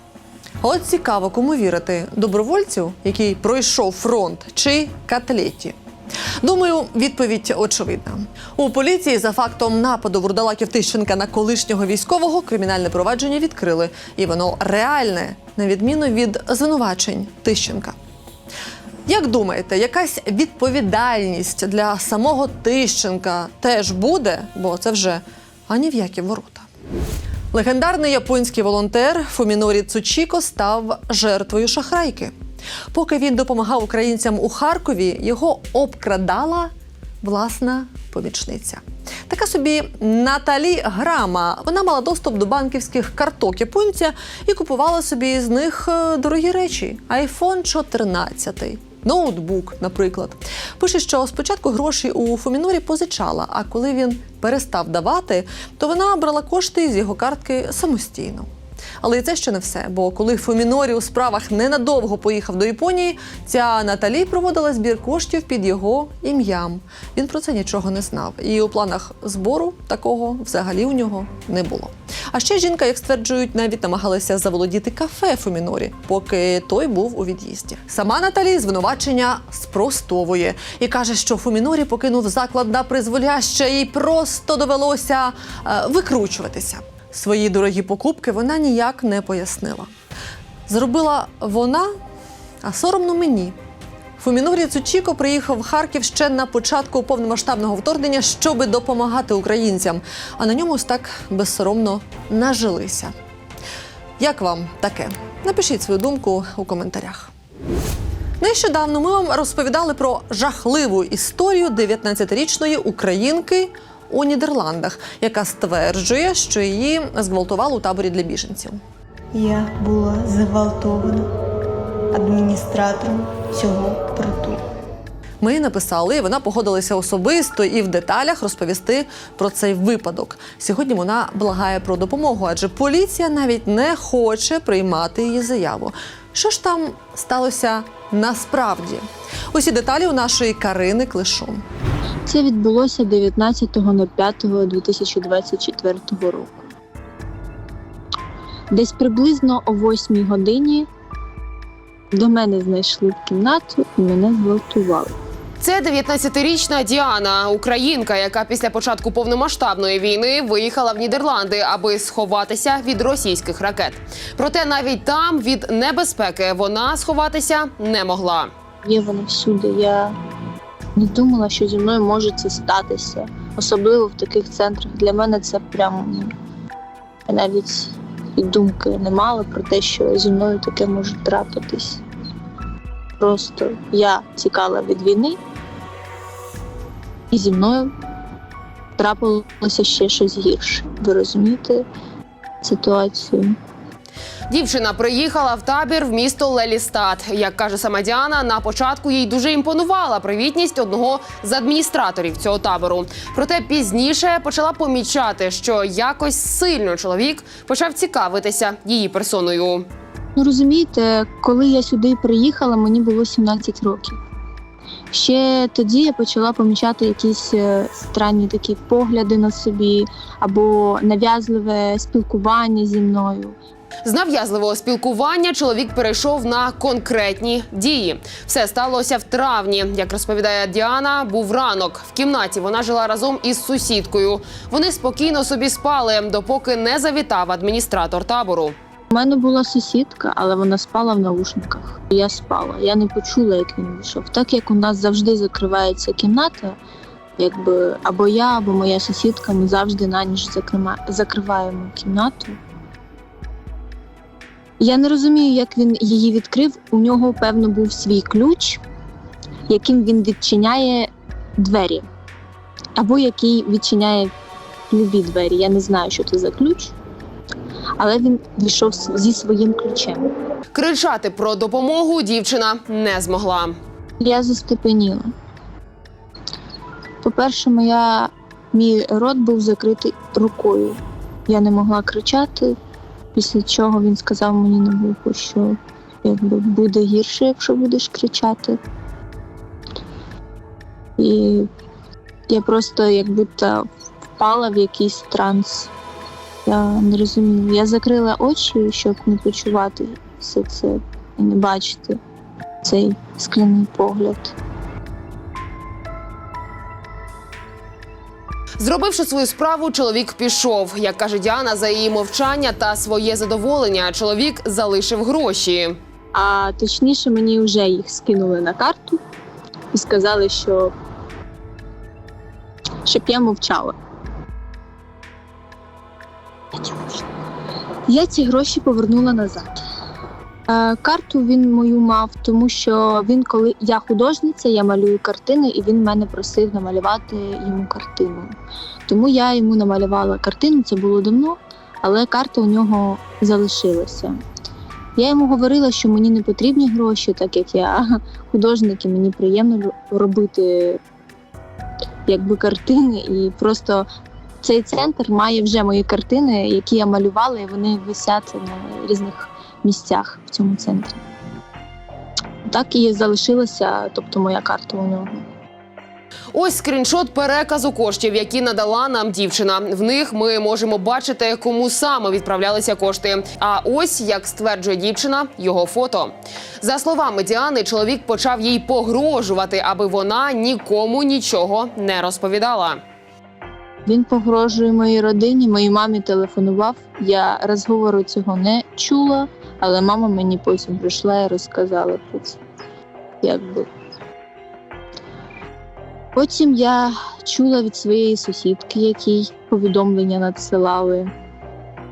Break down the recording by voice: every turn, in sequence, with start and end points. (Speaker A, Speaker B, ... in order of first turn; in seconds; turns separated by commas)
Speaker A: 0.6-5.8, Speaker A: 6.4-17.9, Speaker A: 19.1-26.6, Speaker A: 27.5-32.3, Speaker A: 32.9-36.7, Speaker A: 37.2-58.5, Speaker A: 59.0-89.9, Speaker A: 90.7-91.9, Speaker A: 92.6-93.5, Speaker A: 94.2-103.1, Speaker A: 104.2-107.3, Speaker A: 108.4-118.8, Speaker B: 119.3-121.2, Speaker B: 122.1-124.6, Speaker A: 125.4-141.6, Speaker C: 142.2-146.6, Speaker C: 148.7-150.9, Speaker C: 152.1-155.2, Speaker D: 155.6-168.5, Speaker C: 168.8-170.2, Speaker C: 170.9-176.3, Speaker C: 177.3-182.0, Speaker C: 183.2-185.4, Speaker C: 187.3-187.9, Speaker C: 189.0-191.8, Speaker C: 192.6-193.6, Speaker D: 194.5-209.9, Speaker C: 210.3-214.2, Speaker C: 215.1-223.6, Speaker D: 224.0-238.8, Speaker C: 239.1-246.8, Speaker C: 247.4-252.6, Speaker C: 254.8-258.8, Speaker C: 259.7-262.1, Speaker C: 262.9-264.3, Speaker C: 264.9-266.9, Speaker C: 268.0-270.3, Speaker D: 270.7-273.8, Speaker C: 274.2-275.3, Speaker C: 277.2-282.7, Speaker C: 283.3-288.8, Speaker C: 291.2-291.7, Speaker C: 292.5-295.9, Speaker C: 296.6-302.2, Speaker C: 302.8-304.5, Speaker D: 308.8-316.0, Speaker C: 316.3-319.2, Speaker C: 319.9-320.9, Speaker C: 323.0-323.9, Speaker C: 326.7-327.2, Speaker C: 328.1-329.8, Speaker C: 330.7-338.6, Speaker C: 339.1-344.4, Speaker C: 345.2-351.0, Speaker C: 352.2-354.1, Speaker C: 354.6-361.2, Speaker C: 362.6-365.4, Speaker D: 366.5-383.0, Speaker C: 384.0-392.6, Speaker C: 393.4-393.9, Speaker C: 396.3-401.3